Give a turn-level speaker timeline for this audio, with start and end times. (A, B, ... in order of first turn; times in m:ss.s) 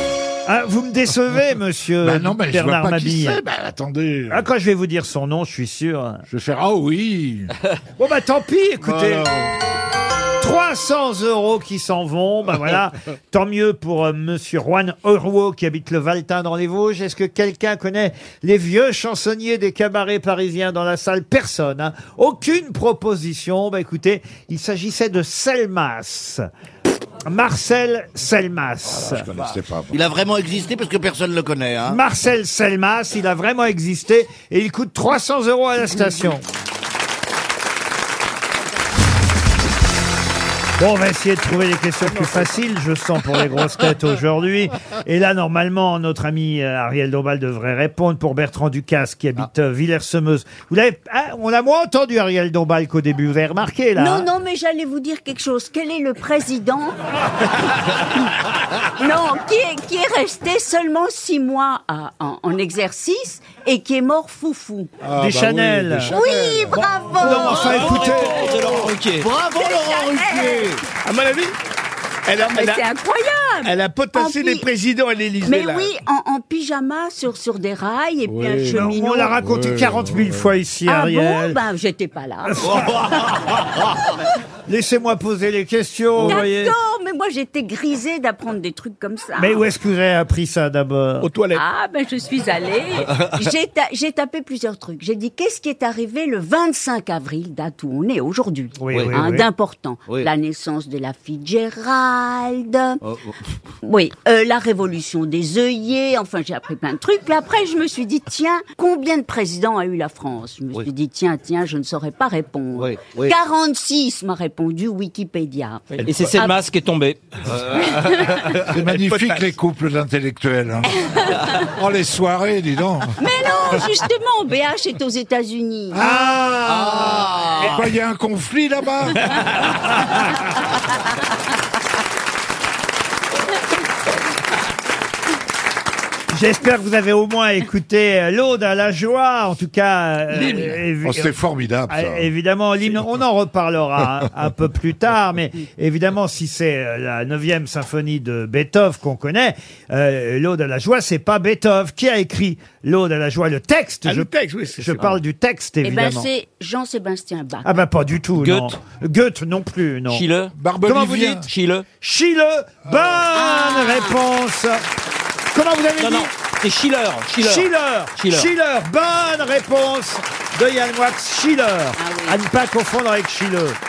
0:00.5-0:03.4 A
0:02.0-0:04.5 B
0:04.3-0:06.2 A
0:06.3-0:07.5 B
0:08.0-0:09.3 A
0:08.8-0:09.5 B
0:10.4-0:26.5 A
0:27.2-0:29.3 A
0:28.9-0:30.0 B
0:29.9-0:32.0 C
0:31.9-0:36.4 A
0:40.8-0:54.3 A
0:54.0-0:57.0 D
0:59.0-1:04.9 D
1:05.0-1:06.9 B
1:05.2-1:06.2 A
1:06.1-1:08.5 D
1:07.2-1:08.6 A
1:07.2-1:07.9 C
1:07.6-1:09.3 E
1:07.9-1:08.6 B
1:09.1-1:10.8 C
1:09.5-1:10.8 D
1:11.0-1:11.6 F
1:12.3-1:12.9 F
1:12.4-1:14.7 D
1:13.6-1:15.9 F
1:15.4-1:19.3 D
1:18.3-1:20.5 B
1:18.7-1:21.6 A
1:20.9-1:22.9 D
1:22.6-1:22.9 A
1:22.6-1:23.8 C
1:24.7-1:26.8 A
1:26.2-1:29.6 D
1:29.4-1:31.3 A
1:31.2-1:31.6 F
1:31.5-1:43.0 D
1:33.2-1:33.5 C
1:38.8-1:39.5 A
1:38.9-1:39.2 C
1:43.0-1:43.4 C
1:43.8-1:56.6 D
1:52.8-1:53.4 C
1:56.0-1:58.4 E
1:57.9-1:58.5 D
1:58.7-2:00.9 B
1:58.9-1:59.5 F
2:00.9-2:01.7 D
2:01.8-2:03.2 B
2:03.2-2:06.0 D
2:05.9-2:09.3 B
2:06.0-2:06.6 A
2:06.6-2:07.9 C
2:16.3-2:21.3 A
2:20.3-2:20.7 F
2:21.0-2:22.3 B
2:21.9-2:36.3 A
2:34.1-2:35.2 F
2:35.8-2:37.7 D
2:37.6-2:40.2 A
2:38.4-2:38.8 E
2:40.1-2:40.5 E
2:40.6-2:41.5 B
2:40.9-2:41.5 A
2:41.5-2:41.9 E
2:42.0-2:44.8 A
2:43.3-2:44.2 D
2:45.5-2:46.3 A
2:46.0-2:48.5 E
2:47.4-2:53.8 A
2:52.0-2:52.4 D